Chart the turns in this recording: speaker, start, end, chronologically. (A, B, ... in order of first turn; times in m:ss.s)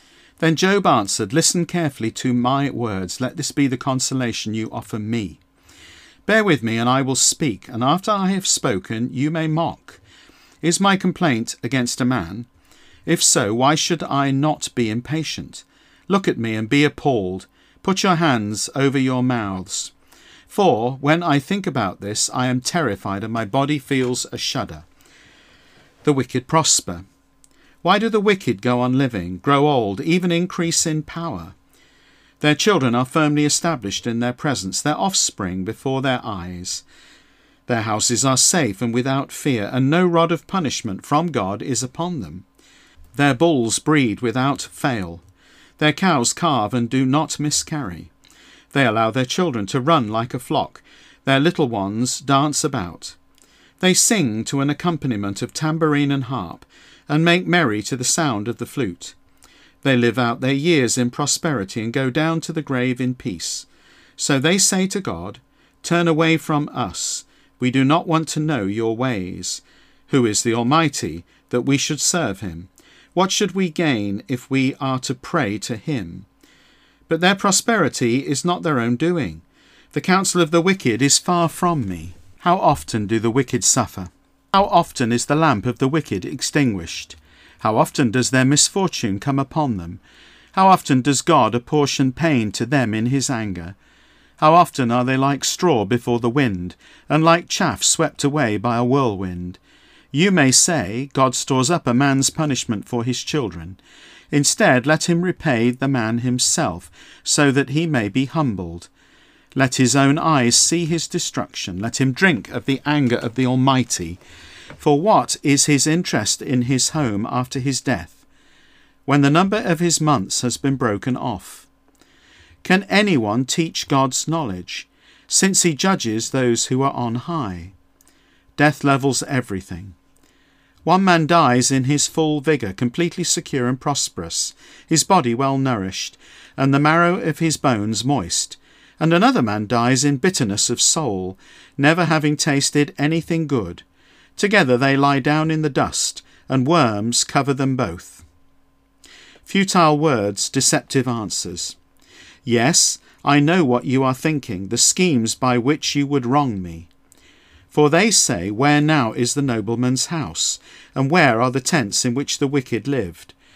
0:00.4-0:05.4 A
0:06.3-0:10.0 A
0:10.6-0:12.5 A
0:13.0-0:19.9 A
0:20.5-0:24.8 A
0:26.0-0:27.0 A
0:27.8-0:31.6 A
0:32.4-0:36.8 A
0:37.7-0:42.4 A
0:43.1-0:45.2 A
0:45.8-0:48.1 A
0:48.7-0:53.2 A
0:53.8-0:59.2 A
0:59.8-1:03.6 A
1:04.2-1:16.3 A
1:17.1-1:30.0 A
1:30.5-1:33.8 A
1:34.4-1:39.6 A
1:40.1-1:43.8 A
1:44.3-1:48.9 A
1:49.5-1:54.2 A
1:54.8-1:58.2 A
1:59.0-2:01.7 A
2:02.6-2:07.7 A
2:08.6-2:10.0 A
2:10.8-2:23.8 A
2:24.4-2:28.2 A
2:29.4-2:31.8 A
2:32.4-2:36.9 A
2:37.7-2:43.3 A